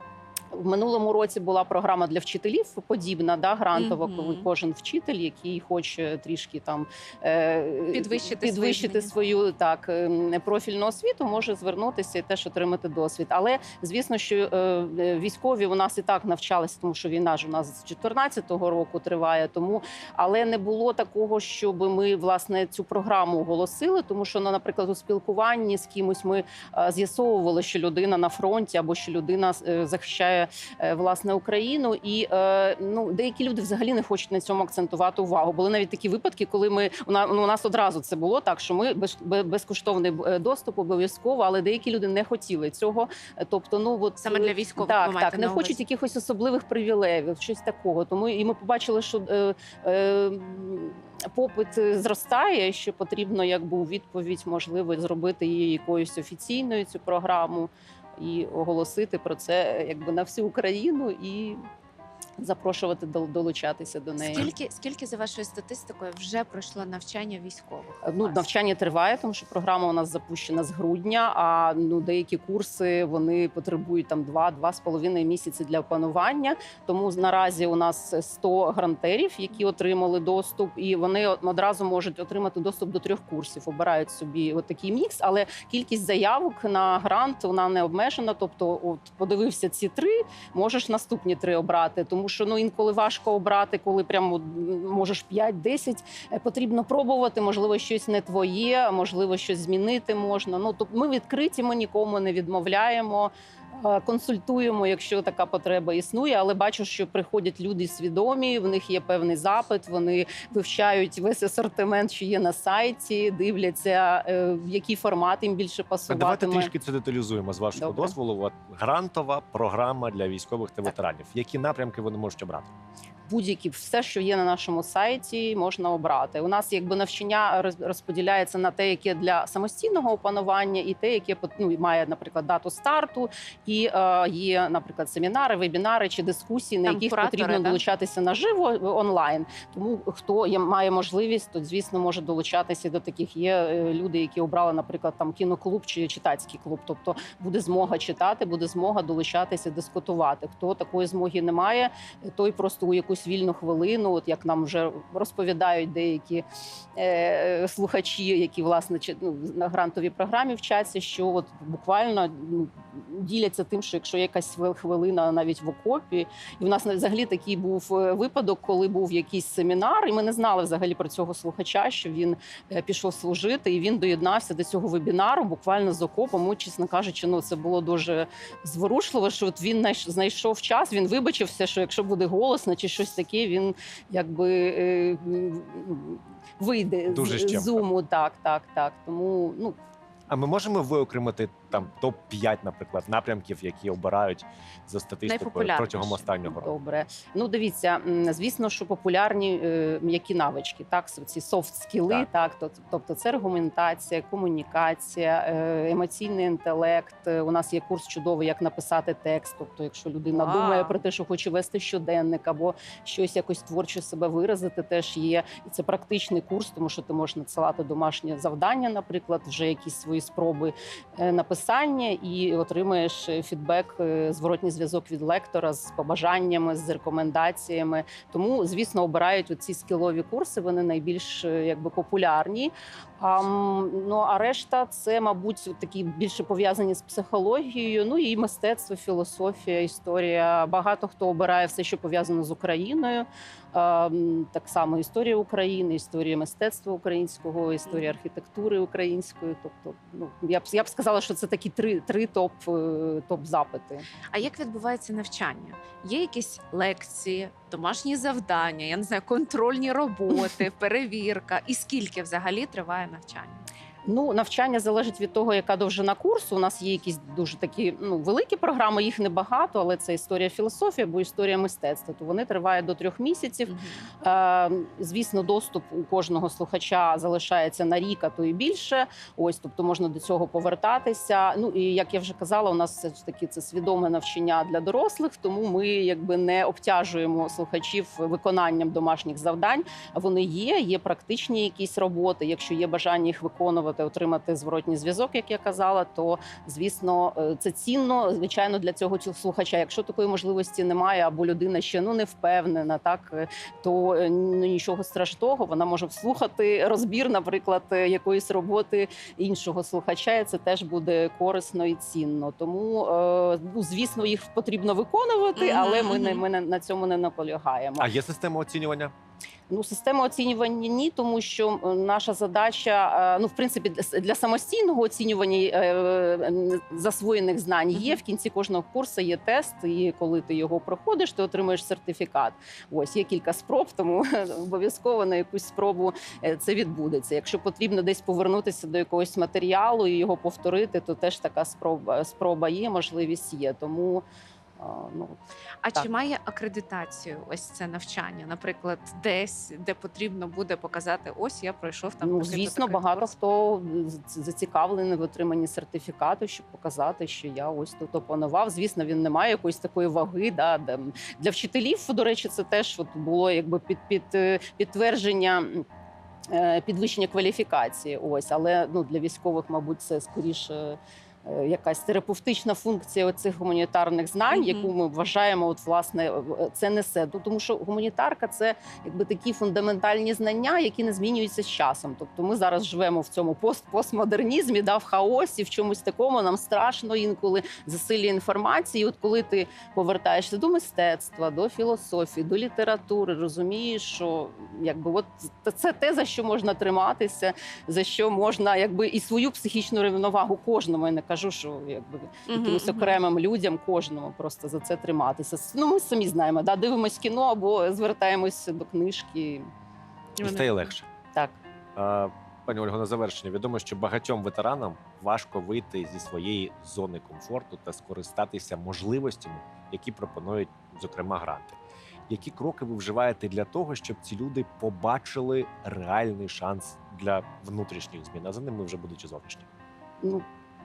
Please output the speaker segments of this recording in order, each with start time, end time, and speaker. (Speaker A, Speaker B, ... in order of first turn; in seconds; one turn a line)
Speaker A: 0.5-61.6
Speaker B: 3.7-4.5
Speaker B: 7.9-9.1
Speaker B: 44.2-45.8
Speaker A: 62.4-64.5
Speaker B: 64.2-68.5
Speaker A: 68.0-116.7
Speaker C: 116.1-122.7
Speaker A: 117.8-118.2
Speaker A: 123.3-156.4
Speaker B: 136.9-137.8
Speaker A: 157.0-189.8
Speaker C: 187.1-187.8
Speaker C: 190.3-196.7
Speaker B: 195.3-196.3
Speaker A: 196.4-254.1
Speaker B: 210.3-211.0
Speaker B: 254.3-263.6
Speaker A: 264.1-318.1
Speaker B: 273.7-274.1
Speaker B: 315.6-316.4
Speaker C: 318.0-319.1
Speaker A: 319.7-344.2
Speaker A: 344.8-345.4
Speaker B: 345.8-353.3
Speaker A: 352.2-365.8
Speaker A: 366.5-409.7
Speaker B: 374.5-374.9
Speaker B: 402.5-403.2
Speaker B: 410.4-410.9
Speaker C: 410.4-411.1
Speaker C: 412.0-421.8
Speaker C: 422.3-429.7